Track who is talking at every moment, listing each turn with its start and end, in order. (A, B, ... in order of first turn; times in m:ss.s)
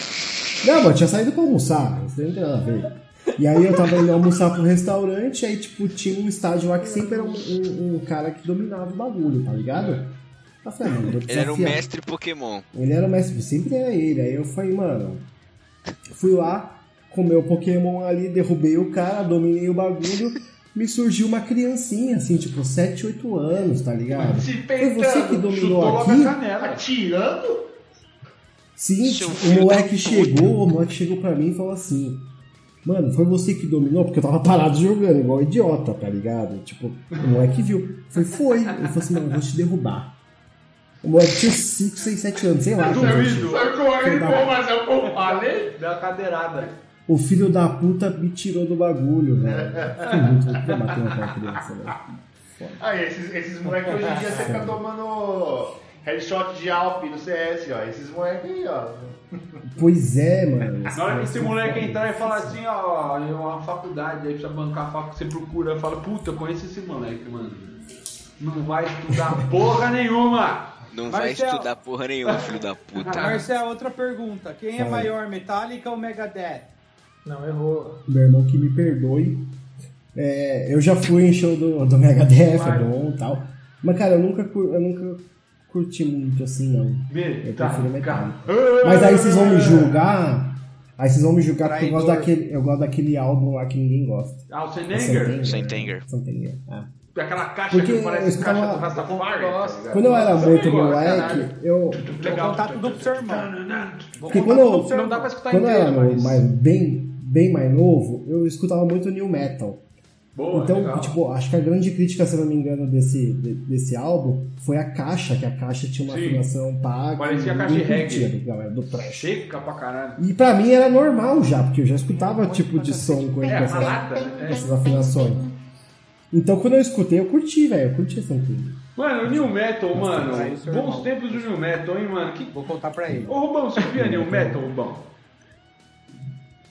0:00.6-0:11.9 A
0:06.9-0:07.3 B
0:11.3-0:12.7 C
0:12.7-0:15.3 A
0:16.1-0:26.4 A
0:24.1-0:26.9 D
0:26.6-0:27.7 E
0:28.8-0:32.3 A
0:29.0-0:30.5 C
0:32.8-0:40.2 A
0:41.0-0:44.6 A
0:42.8-0:45.8 E
0:42.8-0:43.8 D
0:45.2-0:46.7 D
0:47.1-0:52.8 A
0:49.5-0:50.4 E
0:52.8-0:59.2 E
0:54.3-0:54.8 A
0:59.7-1:02.6 A
1:00.9-1:07.8 D
1:08.4-1:10.8 D
1:10.9-1:13.4 C
1:11.1-1:11.7 B
1:12.3-1:13.4 D
1:13.1-1:16.7 B
1:14.8-1:15.1 A
1:17.2-1:18.0 F
1:18.1-1:19.5 A
1:20.2-1:36.9 A
1:22.5-1:22.9 D
1:27.1-1:30.0 D
1:31.6-1:32.3 B
1:34.5-1:35.5 D
1:35.4-1:36.0 C
1:37.2-1:44.3 D
1:37.7-1:38.9 A
1:39.1-1:39.8 F
1:39.9-1:42.0 A
1:42.2-1:43.6 B
1:42.3-1:43.0 F
1:44.2-1:45.3 B
1:44.3-1:49.8 A
1:44.3-1:46.4 F
1:50.4-1:51.2 D
1:50.5-1:59.4 A
1:56.1-1:56.5 D
1:57.2-1:58.3 D
1:58.9-2:00.2 D
2:00.2-2:05.5 A
2:02.2-2:03.5 F
2:03.4-2:04.8 D
2:03.6-2:04.4 B
2:06.3-2:10.5 A
2:09.0-2:12.6 D
2:10.2-2:11.5 B
2:12.5-2:13.4 B
2:13.1-2:13.4 A
2:13.3-2:15.1 D
2:13.9-2:14.7 A